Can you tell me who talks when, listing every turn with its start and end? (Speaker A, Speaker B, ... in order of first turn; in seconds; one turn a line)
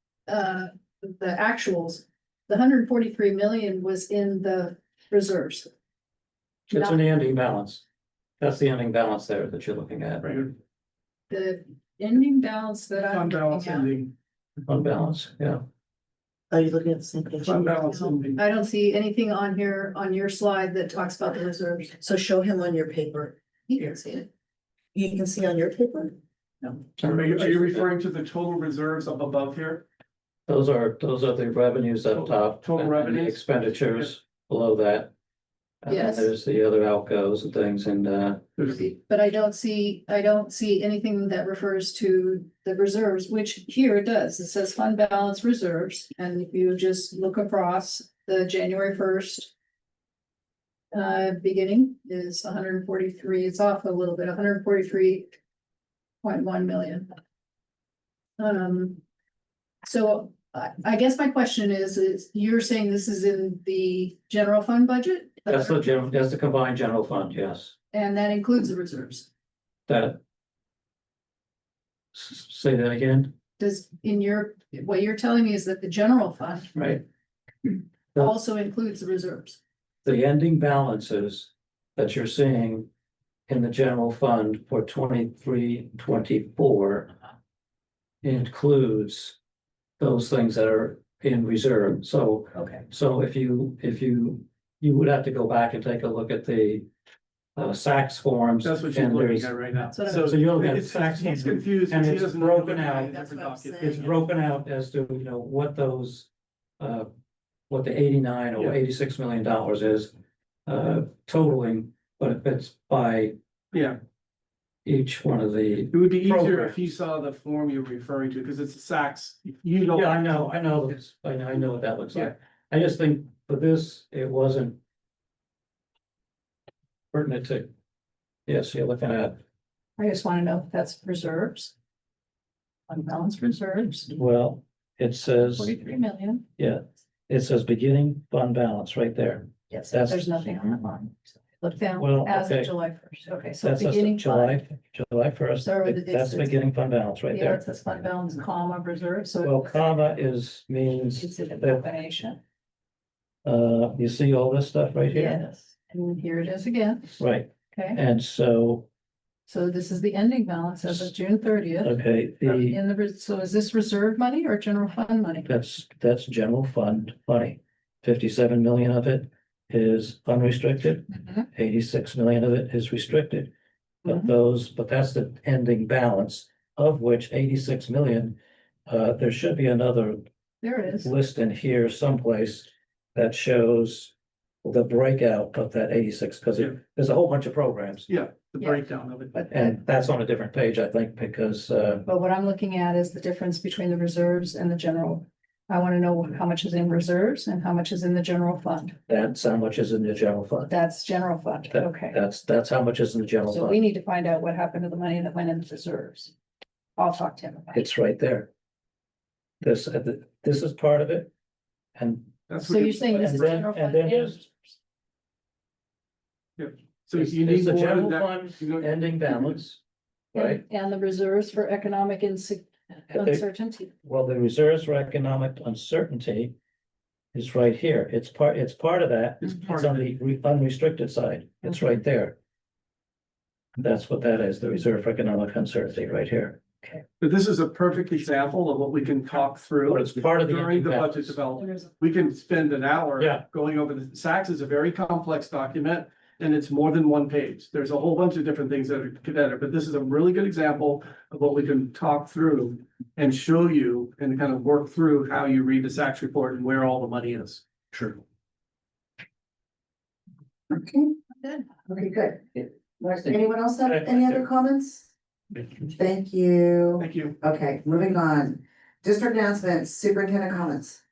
Speaker A: 0.3-5.7
Speaker B: 6.7-7.8
Speaker B: 8.4-10.5
Speaker C: 10.2-10.5
Speaker A: 11.3-13.9
Speaker C: 13.1-14.1
Speaker B: 14.7-15.6
Speaker D: 16.5-17.8
Speaker C: 17.4-18.4
Speaker A: 17.9-22.0
Speaker D: 22.0-24.3
Speaker D: 24.9-26.2
Speaker C: 27.0-29.8
Speaker B: 30.5-35.1
Speaker C: 32.2-33.5
Speaker B: 35.8-38.4
Speaker A: 35.9-36.3
Speaker A: 38.8-49.5
Speaker A: 50.9-55.4
Speaker A: 56.2-57.1
Speaker A: 58.4-59.0
Speaker A: 59.8-65.8
Speaker B: 65.5-67.7
Speaker A: 67.9-69.3
Speaker B: 69.9-70.2
Speaker B: 72.1-73.3
Speaker A: 73.6-76.8
Speaker B: 76.7-77.0
Speaker A: 77.7-79.6
Speaker B: 80.0-82.9
Speaker B: 83.5-87.1
Speaker B: 88.2-89.4
Speaker B: 90.0-96.9
Speaker A: 92.5-92.8
Speaker B: 97.6-103.1
Speaker C: 98.6-104.2
Speaker A: 99.9-100.4
Speaker D: 103.0-104.0
Speaker B: 103.8-107.1
Speaker B: 107.7-110.1
Speaker B: 110.7-113.3
Speaker C: 113.7-114.0
Speaker B: 114.8-116.8
Speaker C: 115.9-120.4
Speaker B: 119.9-124.8
Speaker B: 127.1-127.7
Speaker B: 128.5-129.4
Speaker A: 130.0-131.7
Speaker A: 132.9-134.1
Speaker B: 134.1-135.8
Speaker A: 135.4-136.4
Speaker B: 136.6-140.6
Speaker A: 139.7-144.6
Speaker B: 142.0-142.7
Speaker B: 143.6-147.6
Speaker A: 145.6-146.6
Speaker A: 147.3-149.8
Speaker B: 149.4-151.8
Speaker A: 151.2-152.4
Speaker B: 153.4-155.4
Speaker A: 155.1-157.2
Speaker B: 157.2-158.9
Speaker A: 157.7-158.0
Speaker A: 159.5-165.5
Speaker B: 161.8-162.8
Speaker B: 165.4-173.5
Speaker B: 174.0-178.3
Speaker B: 178.9-180.2
Speaker A: 180.6-181.1
Speaker B: 181.0-184.1
Speaker B: 184.6-188.1
Speaker C: 188.1-189.4
Speaker A: 189.3-189.8
Speaker B: 189.5-192.0
Speaker A: 192.1-199.0
Speaker B: 199.1-200.7
Speaker A: 200.7-202.2
Speaker B: 201.7-203.8
Speaker A: 203.5-206.3
Speaker A: 206.9-207.8
Speaker B: 207.7-208.5
Speaker B: 209.6-211.3
Speaker B: 211.9-212.4
Speaker C: 212.5-213.6
Speaker A: 212.6-214.8
Speaker B: 213.0-214.4
Speaker C: 216.6-218.9
Speaker B: 217.1-219.8
Speaker B: 220.3-220.6
Speaker A: 220.3-223.9
Speaker B: 223.1-223.4
Speaker B: 224.0-226.5
Speaker B: 227.3-232.4
Speaker C: 229.4-230.0
Speaker B: 233.8-236.6
Speaker C: 237.2-258.1
Speaker B: 239.9-241.4
Speaker B: 243.2-243.4
Speaker D: 260.7-261.2
Speaker D: 261.9-265.1
Speaker B: 263.2-264.5
Speaker B: 265.6-265.8
Speaker D: 265.9-271.0
Speaker C: 267.0-267.4